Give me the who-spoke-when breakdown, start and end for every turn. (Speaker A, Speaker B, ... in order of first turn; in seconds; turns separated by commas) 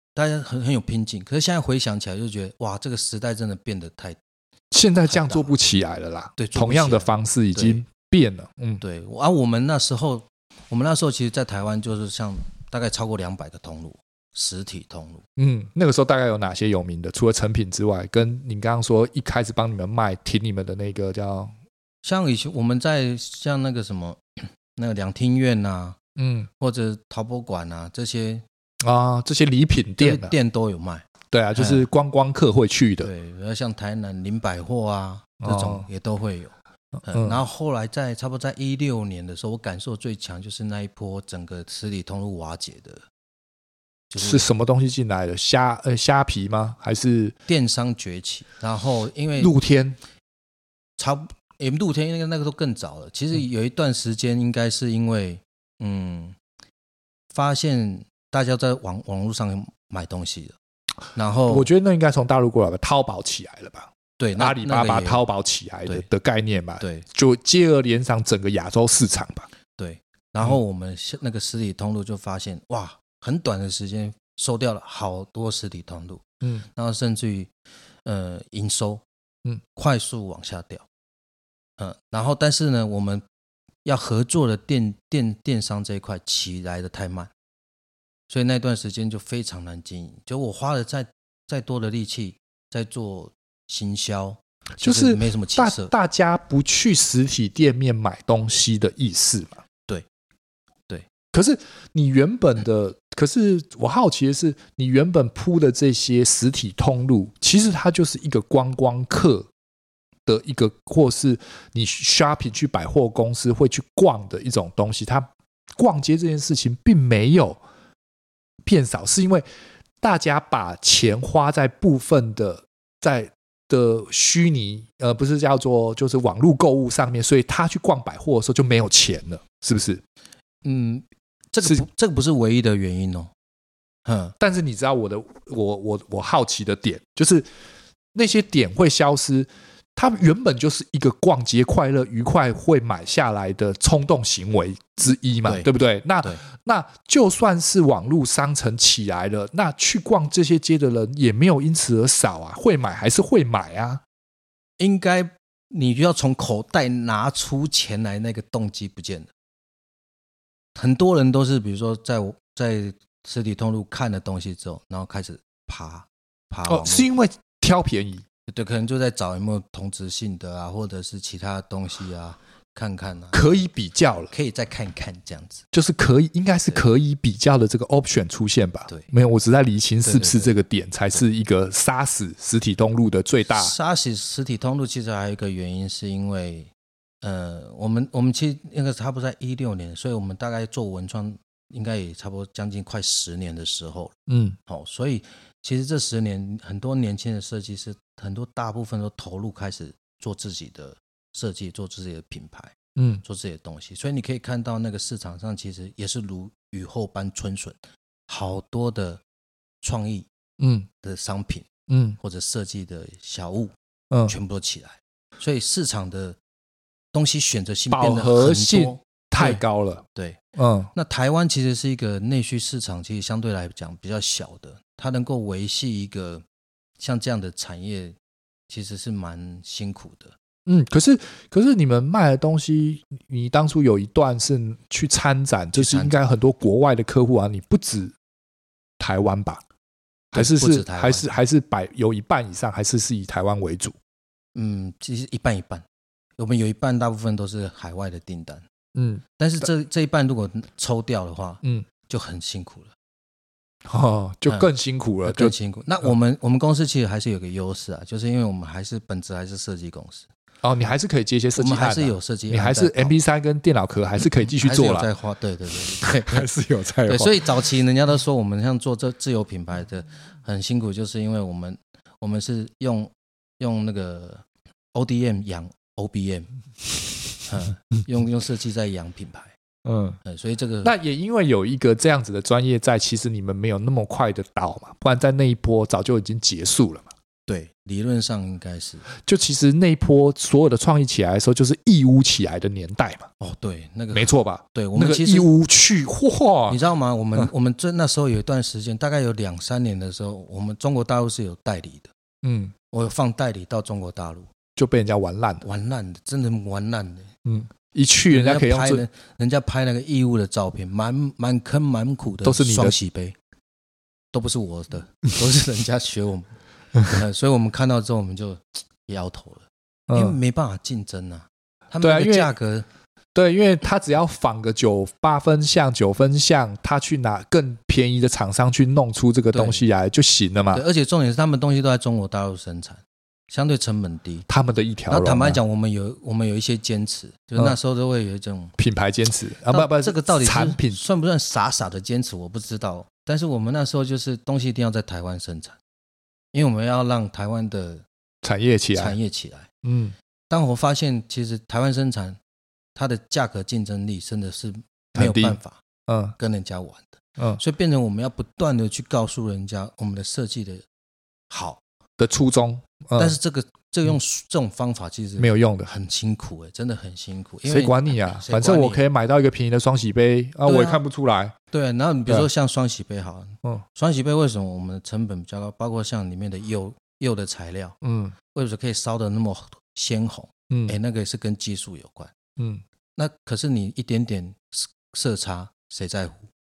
Speaker A: 0.1-4.2, Speaker B: 4.7-8.8, Speaker A: 5.1-5.5, Speaker A: 6.4-7.8, Speaker A: 8.8-15.2, Speaker B: 15.4-21.5, Speaker A: 22.0-26.0, Speaker B: 26.2-26.5, Speaker A: 26.6-28.4, Speaker B: 28.8-30.3, Speaker A: 30.0-31.9, Speaker B: 31.3-33.1, Speaker A: 33.0-36.5, Speaker B: 35.4-35.9, Speaker A: 37.0-43.0, Speaker B: 37.1-37.4, Speaker A: 44.1-44.5, Speaker B: 44.2-47.4, Speaker A: 47.5-49.5, Speaker B: 49.4-50.0, Speaker A: 51.0-56.4, Speaker A: 57.3-60.5, Speaker A: 61.1-61.7, Speaker B: 61.5-69.5, Speaker A: 64.2-65.2, Speaker A: 66.8-67.0, Speaker A: 69.8-77.5, Speaker A: 78.0-79.0, Speaker A: 79.7-80.8, Speaker A: 81.8-83.2, Speaker A: 83.8-87.3, Speaker A: 88.3-95.9, Speaker B: 94.8-99.6, Speaker B: 101.3-109.5, Speaker B: 110.2-117.6, Speaker B: 118.6-119.5, Speaker B: 120.0-130.0, Speaker A: 130.6-133.3, Speaker A: 134.0-134.3, Speaker B: 134.4-137.5, Speaker B: 138.1-154.0, Speaker A: 154.8-159.3, Speaker A: 160.7-167.1, Speaker B: 166.7-168.2, Speaker A: 168.5-173.6, Speaker B: 173.3-174.3, Speaker A: 174.3-175.6, Speaker B: 175.7-183.7, Speaker A: 180.0-180.5, Speaker A: 183.5-186.7, Speaker A: 187.2-194.1, Speaker B: 194.3-194.6, Speaker A: 194.7-207.8, Speaker B: 202.9-203.2, Speaker A: 208.3-209.2, Speaker A: 209.8-210.3, Speaker B: 210.6-210.9, Speaker A: 211.0-211.7, Speaker B: 211.9-212.2, Speaker A: 212.2-213.7, Speaker A: 214.3-216.4, Speaker A: 217.1-219.6, Speaker B: 217.9-220.0, Speaker A: 220.1-220.4, Speaker B: 220.6-220.9, Speaker A: 220.9-226.4, Speaker A: 227.0-228.2, Speaker A: 228.7-230.3, Speaker B: 230.7-238.1, Speaker A: 235.7-236.2, Speaker B: 239.0-239.6, Speaker A: 240.3-241.3, Speaker B: 240.3-243.9, Speaker A: 244.5-245.8, Speaker A: 246.4-248.7, Speaker B: 248.9-249.7, Speaker A: 249.4-252.9, Speaker B: 253.8-255.5, Speaker A: 255.2-260.3, Speaker B: 260.6-265.1, Speaker A: 261.6-263.1, Speaker A: 264.6-266.5, Speaker B: 266.0-267.6, Speaker A: 267.1-276.5, Speaker A: 277.4-279.5, Speaker B: 279.8-280.2, Speaker A: 280.2-280.9, Speaker B: 280.8-287.1, Speaker A: 287.5-289.1, Speaker B: 289.1-293.3, Speaker A: 293.4-295.5, Speaker B: 294.1-296.8, Speaker A: 296.7-302.1, Speaker B: 302.4-302.7, Speaker A: 302.9-304.5, Speaker B: 304.8-305.6, Speaker A: 305.6-307.4, Speaker B: 307.4-309.0, Speaker A: 308.3-313.4, Speaker B: 312.4-312.9, Speaker A: 314.3-316.5, Speaker A: 317.0-322.9, Speaker B: 320.1-320.4, Speaker B: 322.0-322.5, Speaker B: 323.3-330.8, Speaker A: 329.5-329.8, Speaker A: 330.7-334.5, Speaker B: 334.5-335.6, Speaker A: 335.1-338.7, Speaker B: 338.8-341.0, Speaker A: 339.7-345.8, Speaker A: 346.5-348.0, Speaker B: 348.4-349.2, Speaker A: 348.9-349.7, Speaker B: 349.8-350.1, Speaker A: 350.5-352.4, Speaker A: 352.9-355.8, Speaker B: 355.1-356.4, Speaker A: 356.4-360.8, Speaker A: 361.5-361.8, Speaker B: 362.2-363.4, Speaker A: 363.1-369.0, Speaker B: 365.4-365.9, Speaker B: 367.6-371.5, Speaker A: 370.6-371.0, Speaker A: 371.7-382.3, Speaker B: 378.0-378.4, Speaker B: 380.7-381.0, Speaker B: 382.6-382.8, Speaker A: 383.1-386.5